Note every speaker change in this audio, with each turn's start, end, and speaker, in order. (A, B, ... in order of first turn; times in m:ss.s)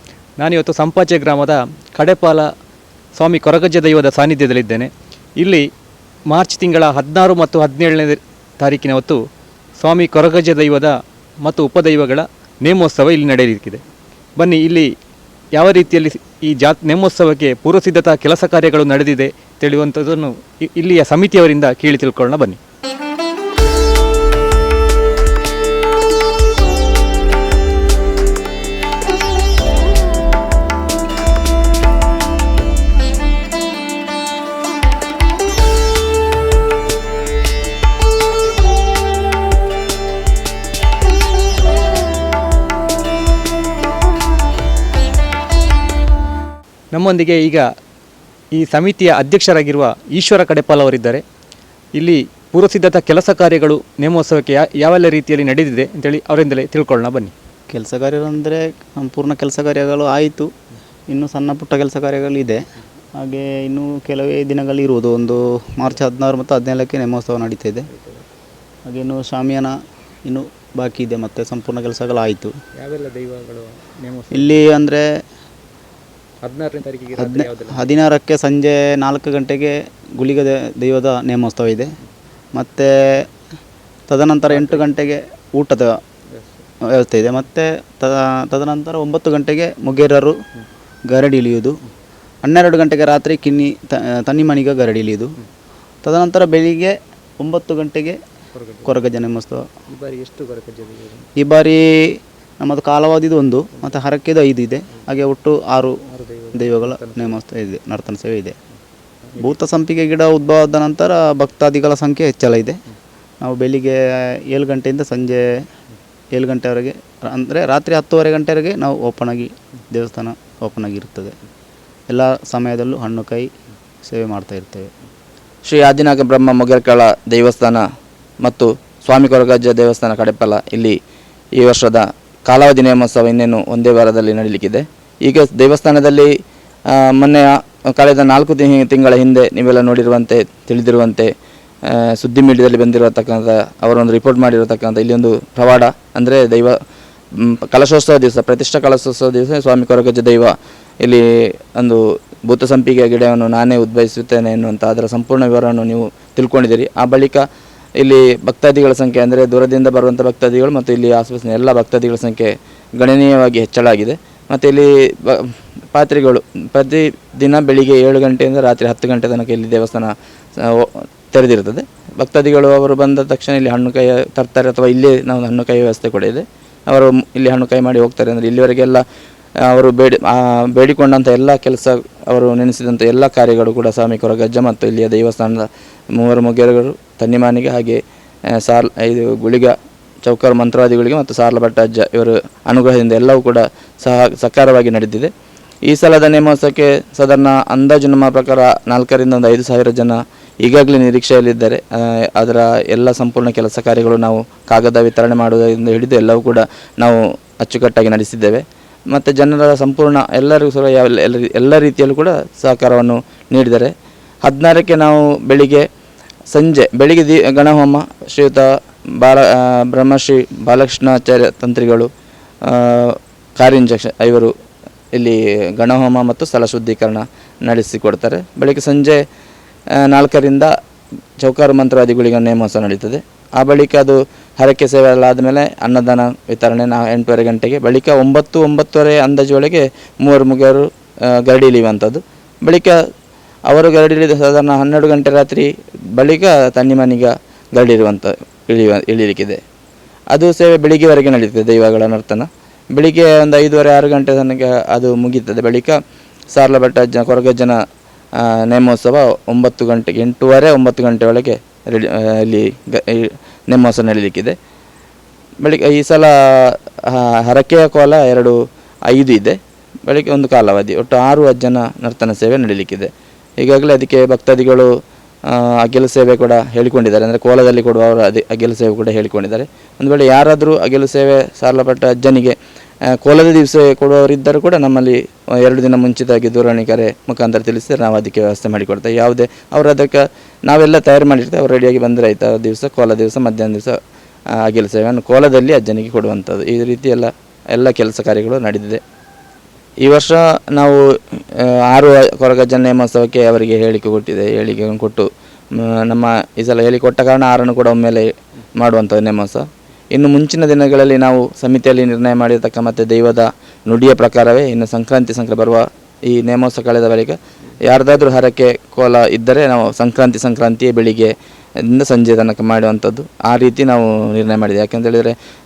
0:00.4-0:02.5 A
0:03.2-0:05.6 A
0:06.3-0:09.2 A
0:09.8-0:13.8 A
0:14.4-0:14.9 A
0:15.5-0:22.6 A
0:46.9-0:47.6 A
0:48.5-0:51.2 A
0:52.0-0:57.3 A
0:57.7-1:00.5 B
1:01.1-1:02.6 B
1:03.2-1:07.9 B
1:07.9-1:08.2 A
1:08.9-1:12.5 B
1:12.8-1:14.7 A
1:14.3-1:15.1 B
1:16.4-1:17.9 A
1:17.2-1:21.9 B
1:22.6-1:23.2 B
1:24.1-1:25.9 B
1:24.5-1:24.9 A
1:27.0-1:30.3 B
1:31.1-1:31.8 B
1:32.4-1:35.3 B
1:36.0-1:38.2 B
1:38.6-1:39.0 A
1:38.8-1:39.6 B
1:39.9-1:41.3 A
1:41.4-1:46.0 B
1:46.1-1:47.4 A
1:46.5-1:48.6 B
1:49.4-1:52.8 B
1:53.4-1:54.0 B
1:54.5-1:55.5 B
1:56.3-2:01.3 B
2:02.1-2:03.5 B
2:04.0-2:04.9 B
2:05.6-2:07.8 C
2:08.4-2:11.0 C
2:11.6-2:16.3 C
2:17.0-2:21.3 C
2:21.9-2:26.8 C
2:27.3-2:37.4 C
2:38.0-2:59.0 C
2:59.7-3:05.7 C
3:06.2-3:08.0 C
3:08.6-3:15.3 C
3:15.9-3:33.9 C
3:34.4-3:35.8 C
3:36.5-3:38.7 C
3:39.2-3:42.1 C
3:42.7-3:44.5 C
3:45.1-3:49.2 C
3:50.0-3:50.7 C
3:51.4-4:03.0 C
4:03.7-4:09.6 C
4:10.3-4:16.0 C
4:16.5-4:17.8 C
4:18.4-4:24.6 C
4:25.6-4:28.6 C
4:29.1-4:34.9 C
4:35.5-4:42.6 C
4:43.2-4:54.0 C
4:54.6-4:59.0 C
5:00.0-5:21.3 C
5:21.9-5:25.4 C